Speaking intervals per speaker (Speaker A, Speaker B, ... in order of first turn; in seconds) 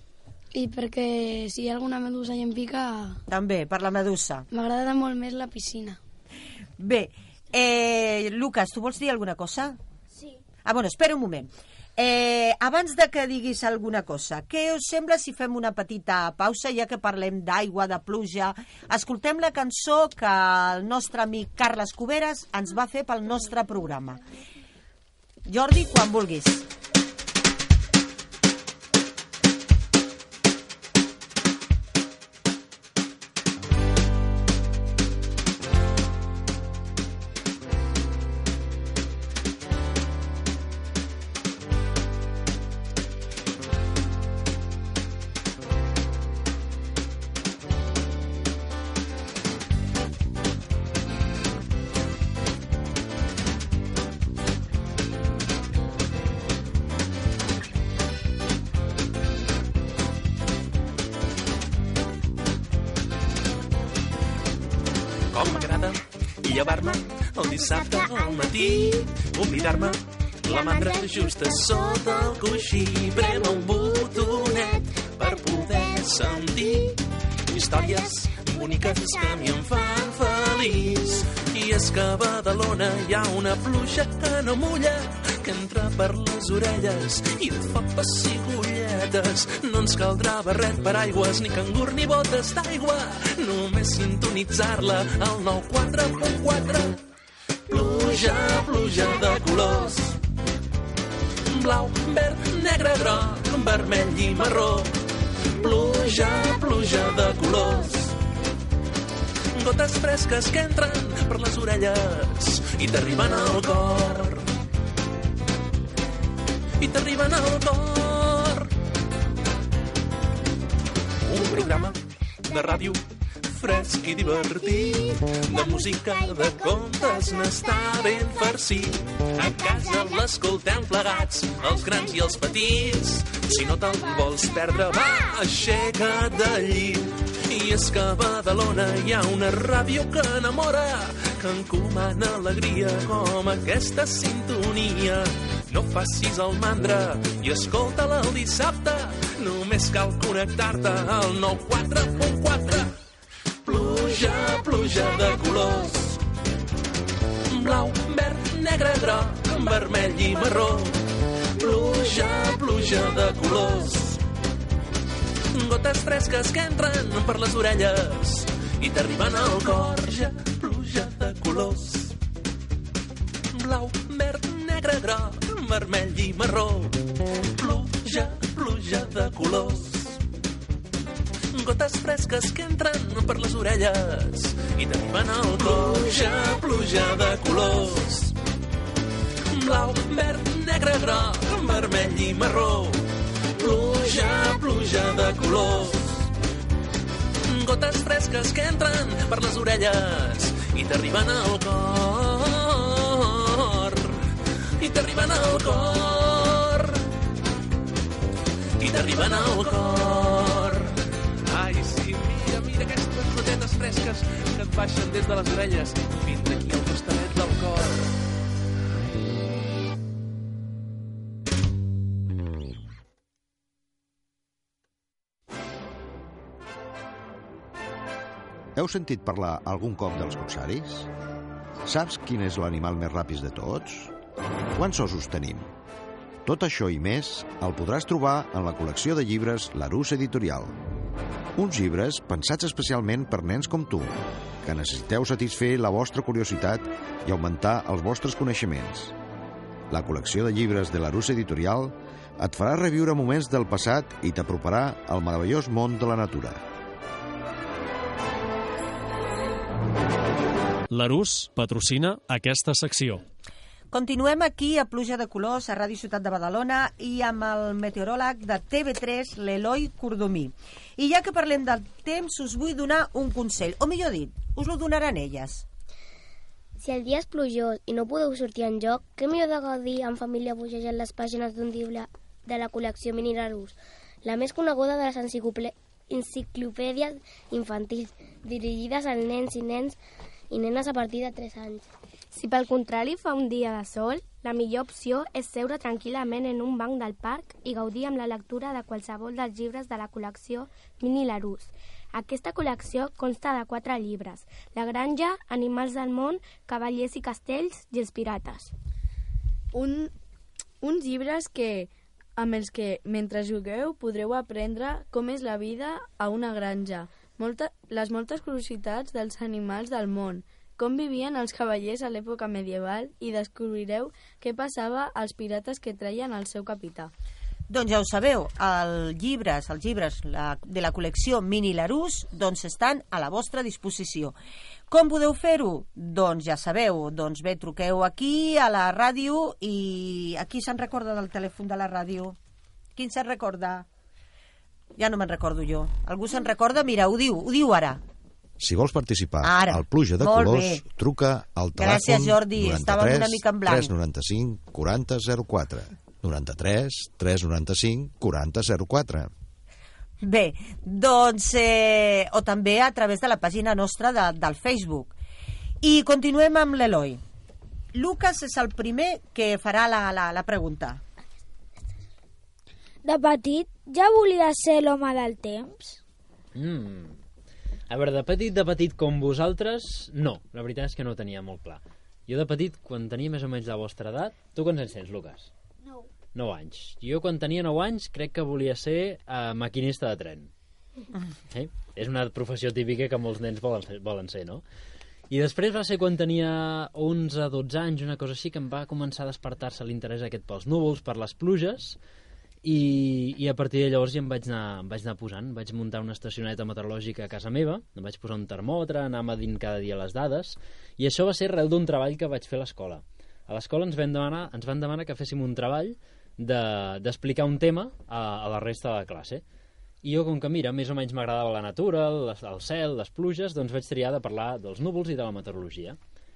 Speaker A: 0.5-3.2, 4.5-6.0
Speaker B: 3.3-4.5, 6.8-9.8, 10.6-24.2, 25.4-26.6, 263.9-275.6, 327.7-334.4, 334.9-342.4, 342.9-343.9, 345.0-348.0, 349.4-350.8, 351.8-353.9, 360.2-365.1, 365.8-367.2, 367.9-371.0
Speaker C: 10.1-10.4, 373.0-376.0
Speaker D: 65.3-97.0, 97.7-100.2, 101.5-104.9, 105.6-108.2, 109.5-114.5, 116.8-118.7, 121.2-152.9, 153.6-156.2, 157.5-164.2, 165.5-172.2, 173.5-177.0, 177.6-180.2, 181.5-188.3, 189.5-196.3, 197.4-207.0, 208.8-218.2
Speaker E: 68.3-68.5, 70.5-71.9, 73.5-74.5, 76.1-76.5, 276.8-290.0, 290.5-291.9
Speaker F: 228.8-231.1, 231.8-234.1, 234.8-235.7, 236.4-240.7, 241.6-249.1, 249.9-256.6, 348.6-359.3
Speaker G: 260.9-263.2
Speaker H: 292.3-308.7
Speaker I: 309.7-310.1, 310.8-327.1
Speaker J: 376.5-377.2, 377.9-385.5, 386.3-390.5, 391.5-394.6, 395.3-402.0, 402.6-419.4, 420.0-426.0